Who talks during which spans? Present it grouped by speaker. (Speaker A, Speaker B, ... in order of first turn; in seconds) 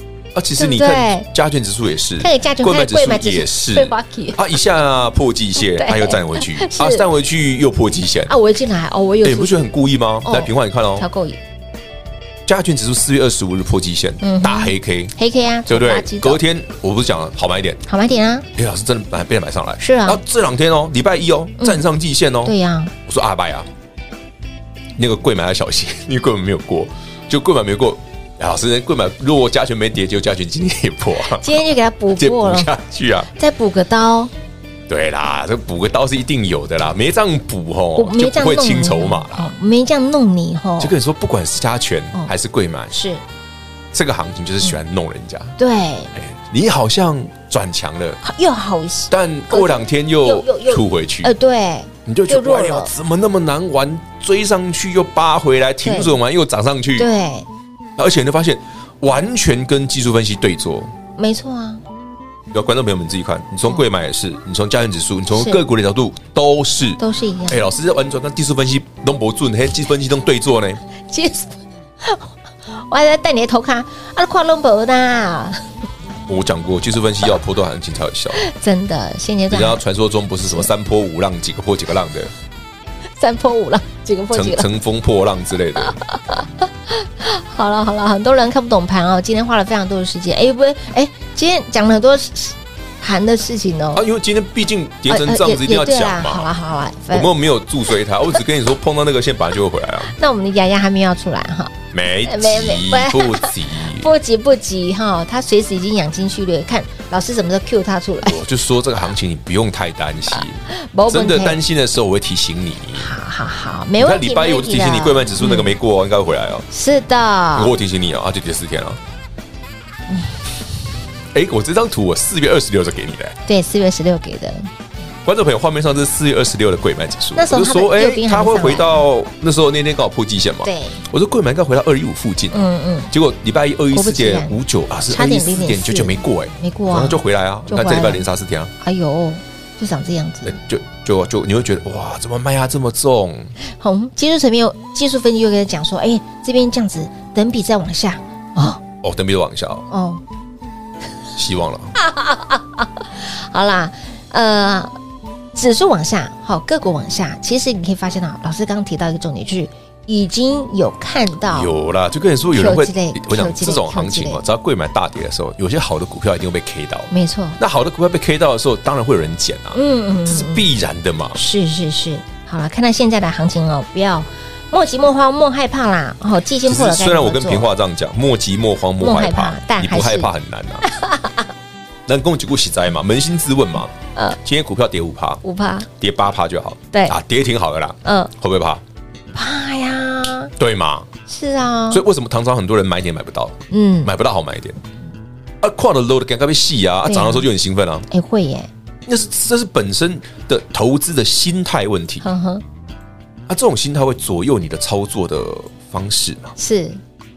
Speaker A: 0.3-8.3, 9.2-11.1, 12.5-15.1, 15.7-17.8, 18.6-23.7, 25.0-33.3, 34.9-39.5, 40.8-43.0, 43.9-45.6, 46.1-48.2, 49.1-51.3, 52.1-57.1, 58.0-60.9, 62.5-70.8, 76.3-78.4, 79.5-82.3, 84.3-86.0, 94.0-96.5, 97.1-100.1, 101.9-104.1, 108.2-113.1, 114.0-116.7, 117.5-119.0, 121.3-123.4, 125.2-138.7, 140.4-143.5, 149.0-149.9, 151.3-151.9, 161.5-171.4, 176.6-180.9, 182.1-188.8, 190.6-191.1, 191.9-194.8, 195.6-198.1, 199.1-202.3, 203.5-206.6
Speaker B: 0.6-1.3, 2.2-4.4, 5.6-7.1, 8.3-9.6, 10.2-11.4, 14.2-16.4, 17.9-18.5, 19.8-20.2, 22.4-22.9, 31.3-32.7, 33.3-34.3, 38.0-40.9, 42.9-43.2, 45.6-46.1, 48.2-52.9, 55.8-56.1, 57.0-57.5, 61.2-61.8, 65.3-65.6, 67.0-67.6, 71.0-75.6, 78.3-79.8, 83.2-84.7, 85.8-94.0, 95.1-97.3, 100.1-108.4, 110.7-111.6, 113.0-115.8, 116.7-117.7, 123.5-124.7, 127.4-129.0, 130.6-131.0, 132.5-133.1, 133.9-134.6, 135.1-138.2, 138.8-140.6, 143.6-148.8, 149.9-150.2, 152.0-155.0, 155.6-161.7, 162.5-164.4, 167.1-167.6, 169.7-170.7, 171.3-177.7, 179.0-180.3, 180.8-181.5, 185.4-185.9, 186.9-187.2, 188.0-188.3, 189.3-190.5, 191.3-192.0, 193.7-194.1, 197.1-197.5, 198.1-198.7, 202.2-202.6, 206.6-207.0